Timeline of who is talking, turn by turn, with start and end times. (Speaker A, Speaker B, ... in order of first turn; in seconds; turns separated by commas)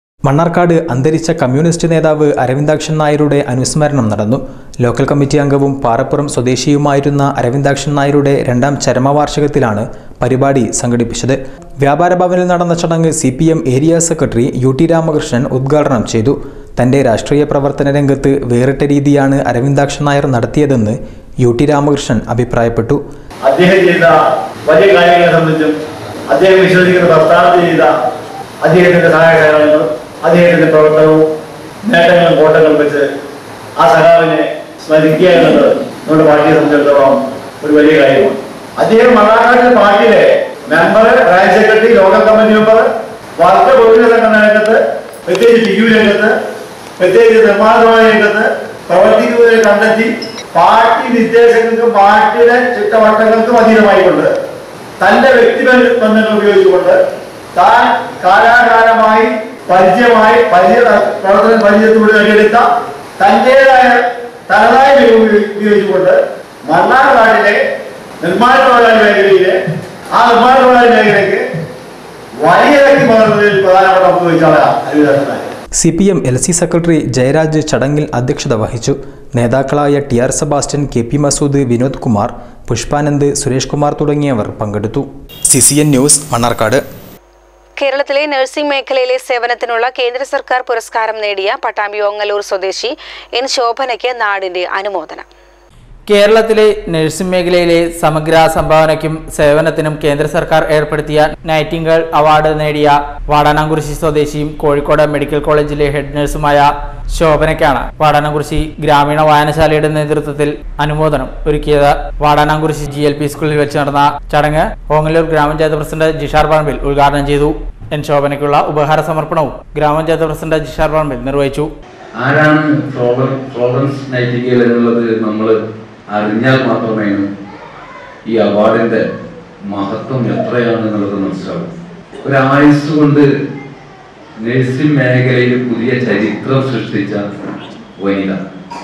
Speaker A: 0.2-23.0, Speaker B: 23.5-25.8, Speaker B: 26.3-27.9, Speaker B: 28.6-31.3, Speaker B: 31.8-33.0, Speaker B: 33.8-42.9, Speaker B: 43.4-46.3, Speaker B: 47.0-54.3, Speaker B: 55.0-57.0, Speaker B: 57.5-62.6, Speaker B: 63.2-67.6, Speaker B: 68.2-69.5, Speaker B: 70.1-71.4, Speaker B: 72.4-75.5, Speaker A: 75.8-86.8, Speaker C: 87.8-95.3, Speaker D: 96.1-121.7, Speaker E: 122.2-125.6, Speaker E: 126.1-127.3, Speaker E: 128.3-129.1, Speaker E: 129.7-131.7, Speaker E: 132.2-133.3, Speaker E: 134.4-137.2, Speaker E: 138.0-138.4